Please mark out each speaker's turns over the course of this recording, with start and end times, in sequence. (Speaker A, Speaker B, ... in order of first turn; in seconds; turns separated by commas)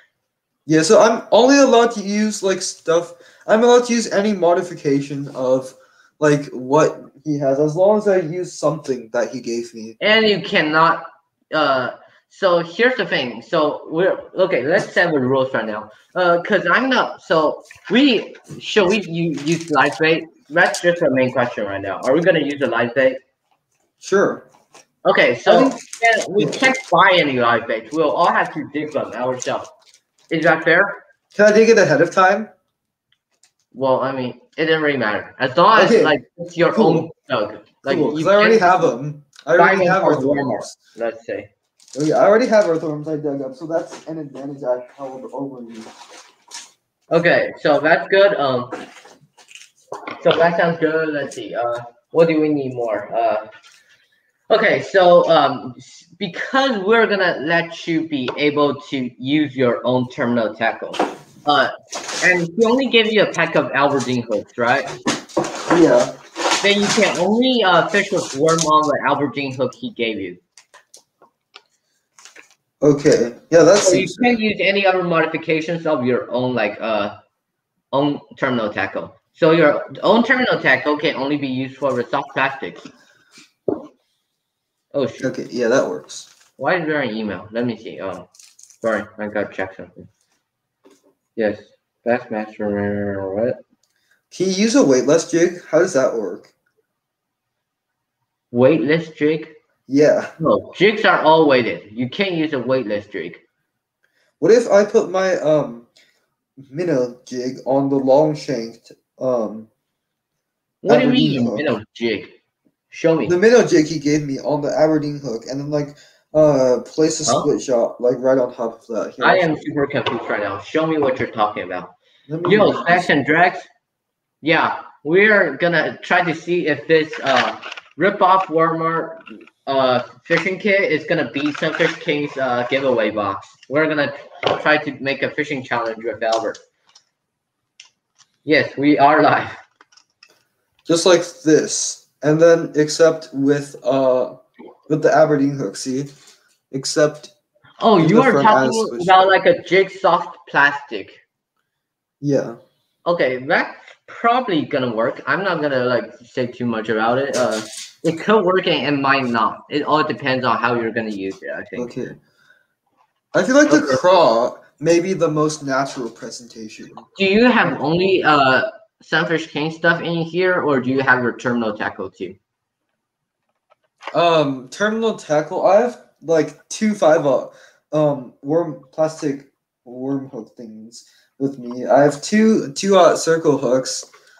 Speaker A: 0.7-10.0, Speaker B: 10.0-23.2, Speaker A: 24.0-24.4, Speaker B: 25.0-29.7, Speaker A: 25.4-25.8, Speaker A: 26.4-26.7, Speaker B: 30.3-31.0, Speaker A: 31.3-32.5, Speaker B: 33.7-38.9, Speaker A: 35.7-36.1, Speaker A: 36.7-37.1, Speaker A: 37.9-40.7, Speaker B: 39.5-41.5, Speaker A: 41.9-45.9, Speaker B: 47.1-48.7, Speaker B: 50.2-53.5, Speaker B: 54.5-64.9, Speaker A: 65.7-66.2, Speaker B: 66.6-70.4, Speaker A: 72.8-74.3, Speaker B: 73.8-77.2, Speaker B: 77.9-82.9, Speaker B: 84.9-85.3, Speaker A: 85.2-86.3, Speaker B: 86.6-88.3, Speaker B: 88.8-90.1, Speaker B: 91.3-93.6, Speaker A: 94.3-96.5, Speaker B: 98.5-99.5, Speaker A: 99.9-100.3, Speaker B: 100.4-103.4, Speaker A: 104.4-105.9, Speaker A: 106.6-109.7, Speaker B: 110.8-112.3, Speaker A: 110.9-111.7, Speaker B: 112.9-113.4, Speaker A: 113.3-119.6, Speaker B: 119.2-121.9, Speaker A: 122.3-123.1, Speaker B: 122.4-123.7, Speaker B: 124.4-136.6, Speaker B: 138.4-139.6, Speaker A: 140.8-146.1, Speaker A: 146.7-147.3, Speaker B: 147.8-151.2, Speaker A: 148.0-149.3, Speaker A: 152.2-152.6, Speaker B: 153.0-161.9, Speaker A: 161.8-162.2, Speaker A: 163.3-167.1, Speaker B: 163.7-164.2, Speaker B: 167.2-172.4, Speaker A: 174.1-184.1